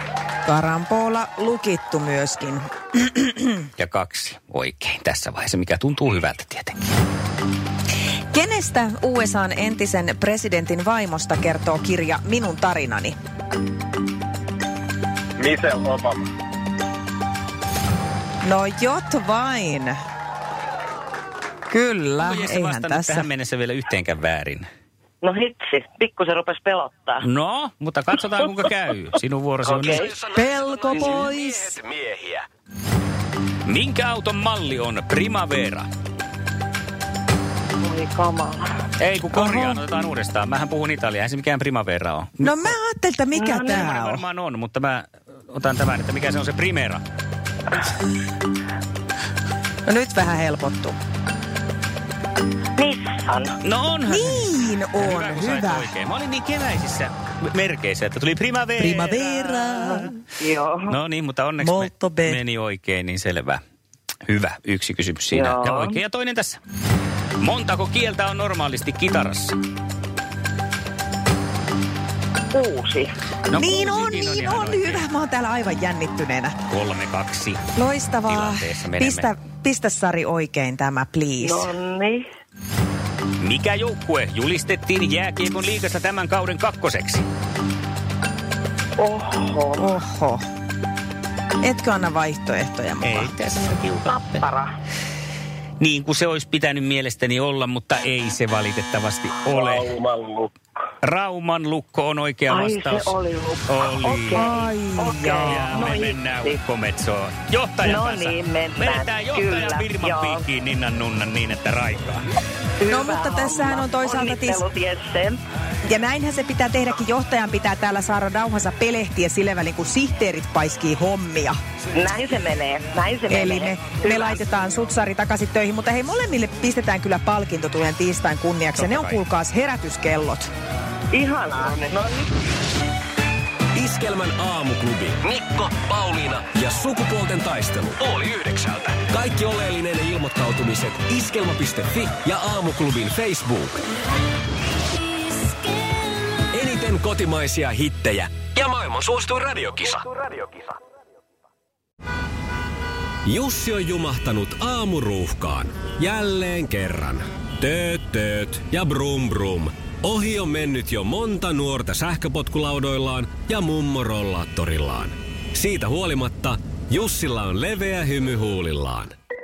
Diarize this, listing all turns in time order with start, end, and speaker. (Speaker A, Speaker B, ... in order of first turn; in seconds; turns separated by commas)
Speaker A: 0.4-3.6, Speaker B: 3.8-6.8, Speaker A: 8.3-13.1, Speaker C: 15.4-16.2, Speaker A: 18.4-19.9, Speaker A: 21.7-23.3, Speaker B: 22.2-24.7, Speaker D: 25.2-27.2, Speaker B: 27.2-30.1, Speaker E: 29.6-32.5, Speaker A: 30.4-31.8, Speaker B: 33.6-35.9, Speaker D: 37.8-38.7, Speaker B: 39.0-42.8, Speaker A: 39.3-39.8, Speaker A: 42.4-44.2, Speaker D: 43.4-43.7, Speaker B: 43.7-47.0, Speaker A: 49.9-51.0, Speaker D: 52.8-53.5, Speaker B: 53.6-60.1, Speaker A: 54.1-55.9, Speaker A: 58.8-60.2, Speaker D: 60.4-60.9, Speaker B: 60.9-63.6, Speaker A: 61.6-62.4, Speaker B: 64.2-66.6, Speaker D: 65.3-66.0, Speaker B: 67.4-69.6, Speaker D: 72.5-73.1, Speaker B: 73.5-75.0, Speaker A: 73.5-76.5, Speaker B: 76.7-77.7, Speaker A: 77.7-81.7, Speaker B: 78.3-79.3, Speaker D: 81.4-82.3, Speaker B: 83.4-87.2, Speaker D: 89.0-89.9, Speaker A: 89.8-90.4, Speaker A: 91.6-93.3, Speaker B: 93.0-94.4, Speaker D: 94.1-94.7, Speaker B: 95.8-99.9, Speaker C: 99.5-100.5, Speaker B: 101.0-104.4, Speaker D: 102.5-106.6, Speaker A: 104.3-105.9, Speaker B: 105.3-112.2, Speaker D: 107.8-110.4, Speaker D: 112.8-115.4, Speaker A: 112.9-114.6, Speaker A: 115.8-121.6, Speaker D: 121.9-124.4, Speaker A: 123.3-130.5, Speaker B: 128.8-129.2, Speaker D: 131.1-132.2, Speaker E: 133.7-143.8, Speaker E: 146.5-150.7, Speaker E: 153.2-169.1